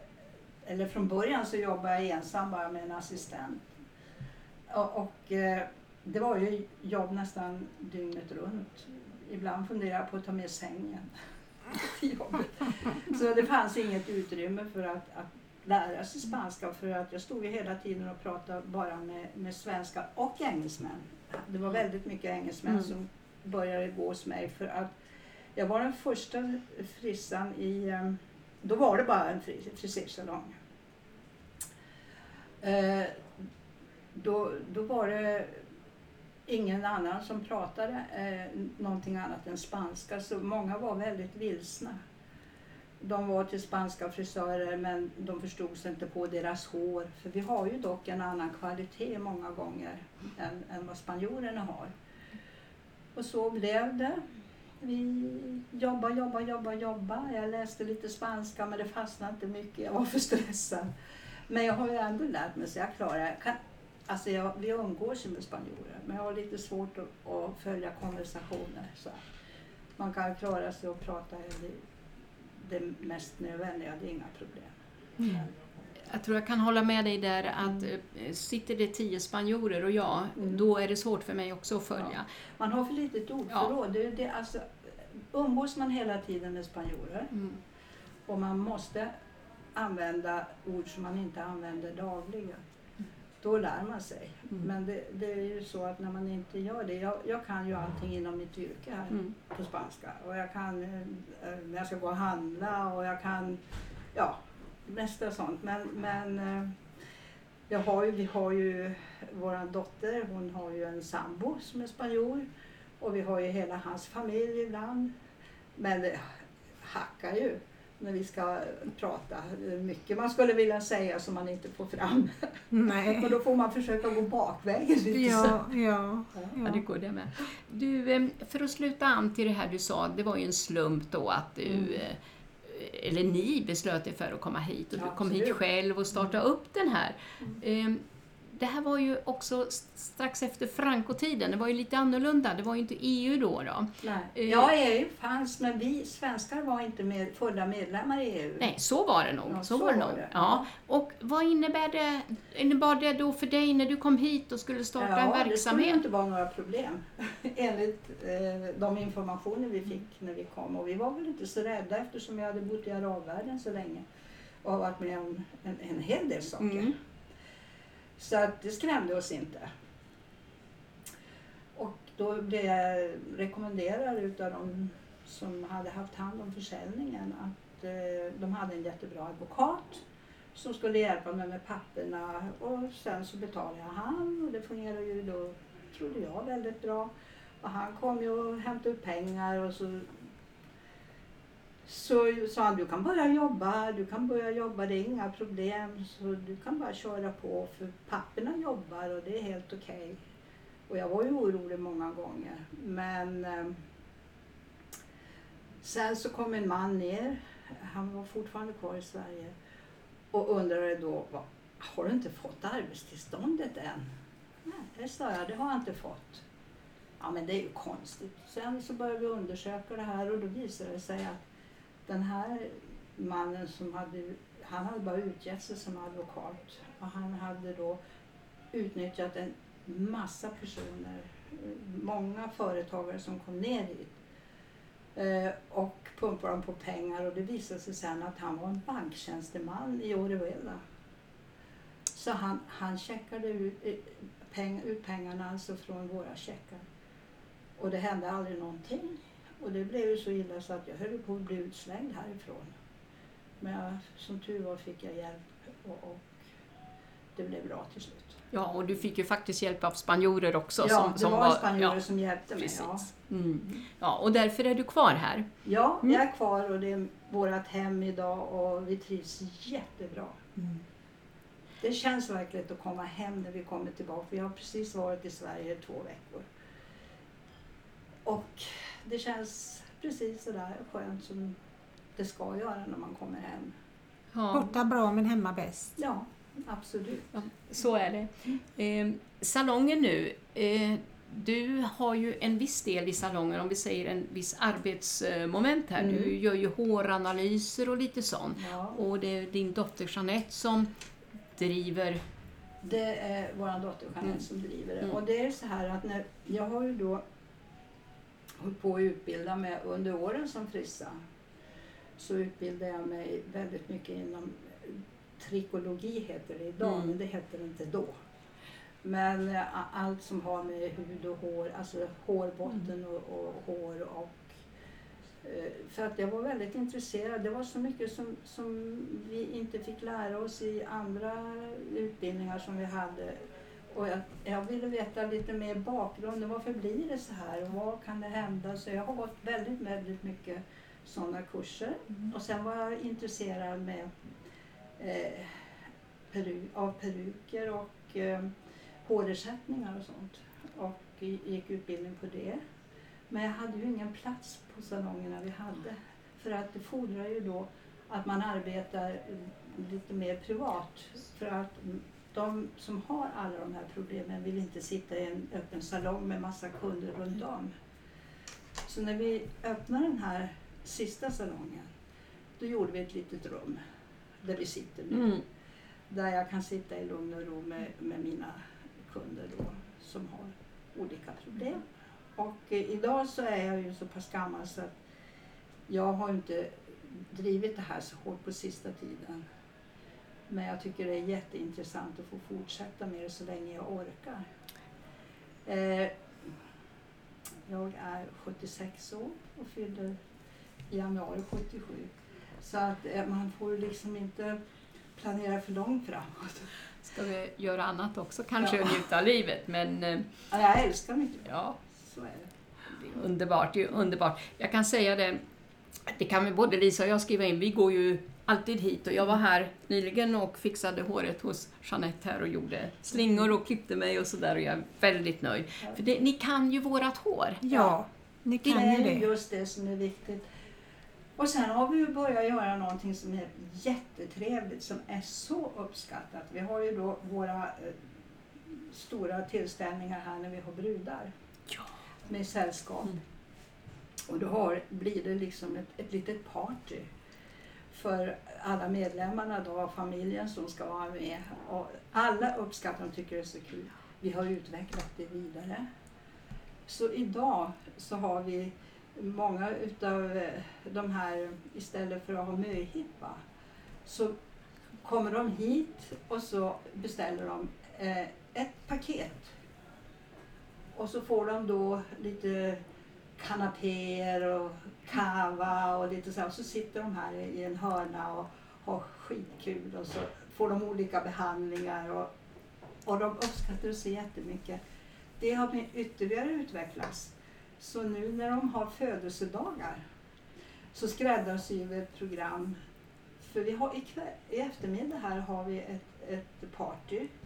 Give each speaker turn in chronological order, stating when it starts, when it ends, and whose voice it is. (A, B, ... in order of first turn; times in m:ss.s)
0:00.6-0:03.6 A
0:04.7-0:11.1 A
0:11.7-0:25.0 A
0:25.5-0:30.6 A
0:32.6-0:33.2 A
0:34.1-0:35.6 A
0:36.5-0:42.0 A
0:43.0-0:51.9 A
0:53.1-0:54.2 A
0:54.8-1:00.9 A
1:01.5-1:03.6 A
1:04.1-1:09.2 A
1:10.0-1:11.8 A
1:12.6-1:15.5 A
1:16.1-1:22.2 B
1:20.4-1:20.6 A
1:22.0-1:24.7 A
1:25.3-1:27.3 A
1:27.3-1:27.6 B
1:28.3-1:29.1 A
1:29.7-1:32.6 A
1:33.4-1:43.6 A
1:44.1-1:46.8 A
1:47.7-1:52.4 A
1:53.0-1:55.1 A
1:55.8-2:05.7 A
2:02.7-2:03.3 C
2:05.1-2:06.8 C
2:06.6-2:24.7 B
2:11.7-2:12.0 A
2:15.0-2:15.6 A
2:16.1-2:16.4 A
2:24.0-2:28.7 A
2:28.6-2:36.0 B
2:29.5-2:30.7 A
2:35.0-2:44.0 A
2:44.6-2:46.9 A
2:46.6-2:46.9 B
2:48.2-2:49.7 A
2:51.7-3:10.1 A
3:11.8-3:20.2 A
3:20.9-3:23.8 A
3:25.8-3:29.5 A
3:30.3-3:34.1 A
3:34.6-3:36.4 A
3:37.2-3:41.4 A
3:42.0-3:48.0 A
3:48.7-3:54.2 A
3:55.1-4:00.8 A
4:02.1-4:06.8 A
4:07.8-4:12.7 A
4:13.6-4:16.5 A
4:17.4-4:18.4 A
4:18.5-4:22.0 B
4:20.8-4:23.1 A
4:22.6-4:25.5 B
4:25.6-4:30.4 A
4:31.8-4:36.5 A
4:38.2-4:41.6 A
4:42.2-4:43.7 A
4:44.3-4:44.7 B
4:44.5-4:45.9 C
4:46.0-4:47.3 A
4:47.3-5:00.9 B
4:56.0-4:56.3 A
4:58.6-4:59.0 A
5:01.5-5:02.2 B
5:02.8-5:07.2 A
5:08.6-5:11.2 A
5:12.2-5:18.2 A
5:16.8-5:17.1 B
5:19.0-5:24.6 A
5:25.4-5:33.4 A
5:33.9-5:44.1 A
5:45.0-5:45.6 A
5:46.3-5:48.5 A
5:49.0-5:52.6 A
5:53.3-6:07.7 A
6:08.8-6:11.9 A
6:12.6-6:13.8 A
6:14.4-6:15.3 A
6:15.1-6:15.4 B
6:16.1-6:21.8 A
6:22.4-6:25.0 A
6:25.9-6:29.4 A
6:30.5-6:34.4 A
6:35.6-6:36.1 A
6:37.6-6:40.1 A
6:40.9-6:44.6 A
6:45.1-6:46.7 A
6:47.0-6:50.2 B
6:48.6-6:49.0 A
6:50.5-6:52.5 A
6:51.4-6:51.8 B
6:52.9-6:55.4 B
6:56.1-7:07.6 B
7:07.6-7:09.3 C
7:07.7-7:08.0 A
7:08.6-7:10.4 A
7:11.4-7:18.0 A
7:18.9-7:21.3 A
7:22.2-7:23.2 A
7:24.3-7:27.1 A
7:27.9-7:35.8 A
7:36.8-7:43.4 A
7:44.0-7:44.3 A
7:45.0-7:49.5 A
7:50.9-7:52.8 A
7:53.4-8:02.3 A
8:03.0-8:04.8 A
8:05.4-8:10.0 A
8:10.9-8:12.8 A
8:13.4-8:17.3 A